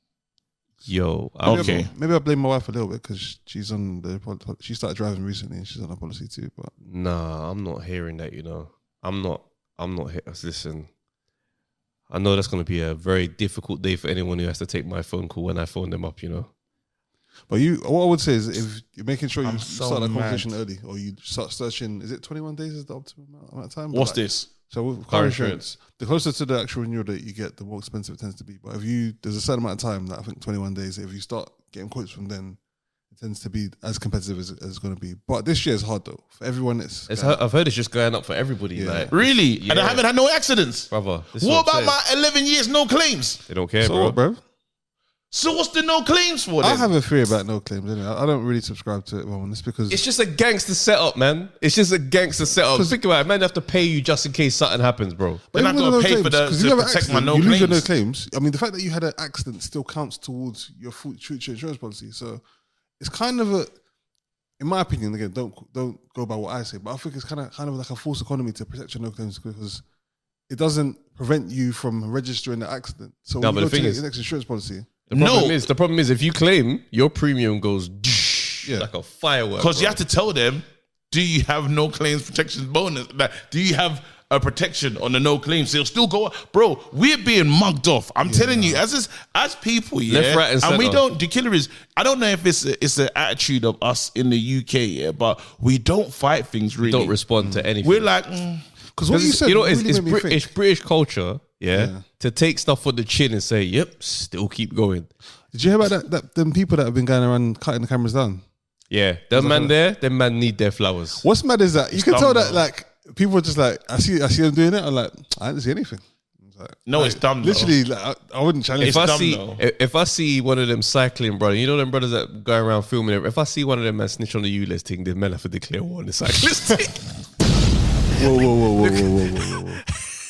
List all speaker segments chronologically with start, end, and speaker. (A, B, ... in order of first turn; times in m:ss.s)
0:00.8-0:01.8 A
0:01.4-0:01.9 B
0:01.4-0:06.7 C
0:06.9-0:10.9 A
0:12.1-0:16.5 A
0:17.5-0:32.6 C
0:19.4-0:20.5 B
0:23.9-0:24.5 B
0:25.1-0:25.6 A
0:33.1-0:37.4 C
0:37.1-0:40.0 A
0:38.7-0:39.1 C
0:39.1-0:43.4 B
0:40.9-0:41.9 A
0:43.5-0:44.2 A
0:43.8-0:44.4 C
0:45.3-0:46.9 B
0:46.6-0:50.0 C
0:49.9-0:55.4 A
0:52.6-0:53.0 C
0:55.5-1:02.4 C
0:55.5-0:57.9 B
1:03.0-1:03.7 C
1:04.6-1:09.8 C
1:10.5-1:15.1 C
1:13.4-1:14.0 A
1:15.1-1:15.7 B
1:15.1-1:20.0 A
1:19.6-1:37.1 B
1:28.2-1:28.8 C
1:30.1-1:31.0 A
1:36.8-1:38.1 A
1:37.8-1:38.6 B
1:39.0-1:40.5 C
1:39.1-1:45.1 A
1:41.7-1:42.0 C
1:45.5-1:48.4 C
1:48.9-1:51.2 A
1:49.3-1:49.7 C
1:51.2-1:59.1 C
1:51.9-1:52.6 B
1:56.9-1:57.7 B
1:58.8-1:59.6 B
1:58.8-2:07.0 A
2:08.1-2:09.7 A
2:08.1-2:09.8 C